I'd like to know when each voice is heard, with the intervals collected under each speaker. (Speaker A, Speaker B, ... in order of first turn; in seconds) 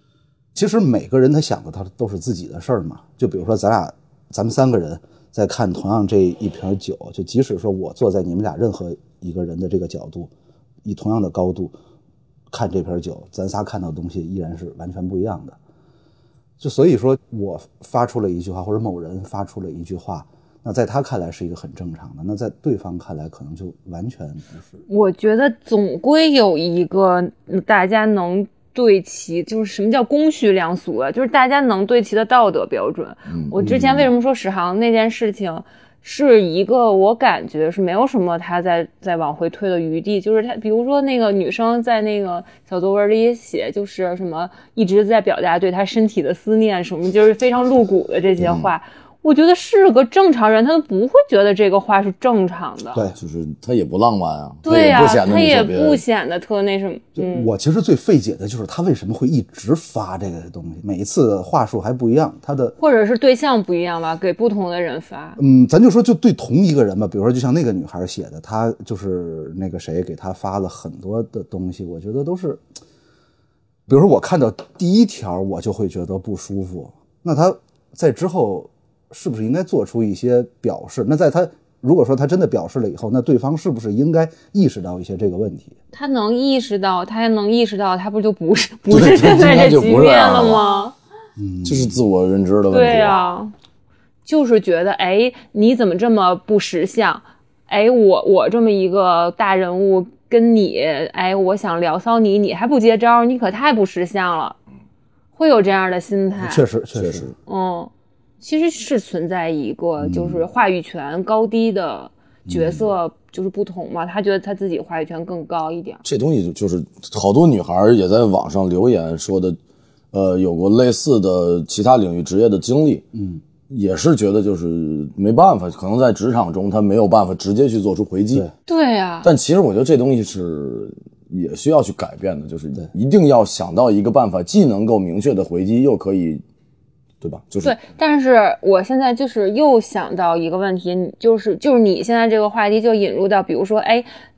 Speaker A: 0.5-10.3, 10.8-11.7, 12.5-15.6, 16.6-24.7, 33.6-34.0, 57.1-62.7, 65.4-72.6, 73.9-85.8, 91.4-92.0, 106.4-107.3, 110.0-110.4, 112.5-112.8, 123.1-123.4
Speaker B: 24.9-53.0, 54.6-57.5, 62.8-65.4, 85.9-90.9, 92.7-93.5, 94.2-104.6, 105.3-106.6, 107.5-116.0, 128.7-129.3, 137.6-144.1
Speaker C: 33.3-33.7, 48.4-48.7, 53.2-56.0, 88.9-90.6, 91.6-93.2, 107.0-107.3, 116.0-119.6, 120.1-123.0, 123.7-128.4, 129.2-136.4, 137.2-137.8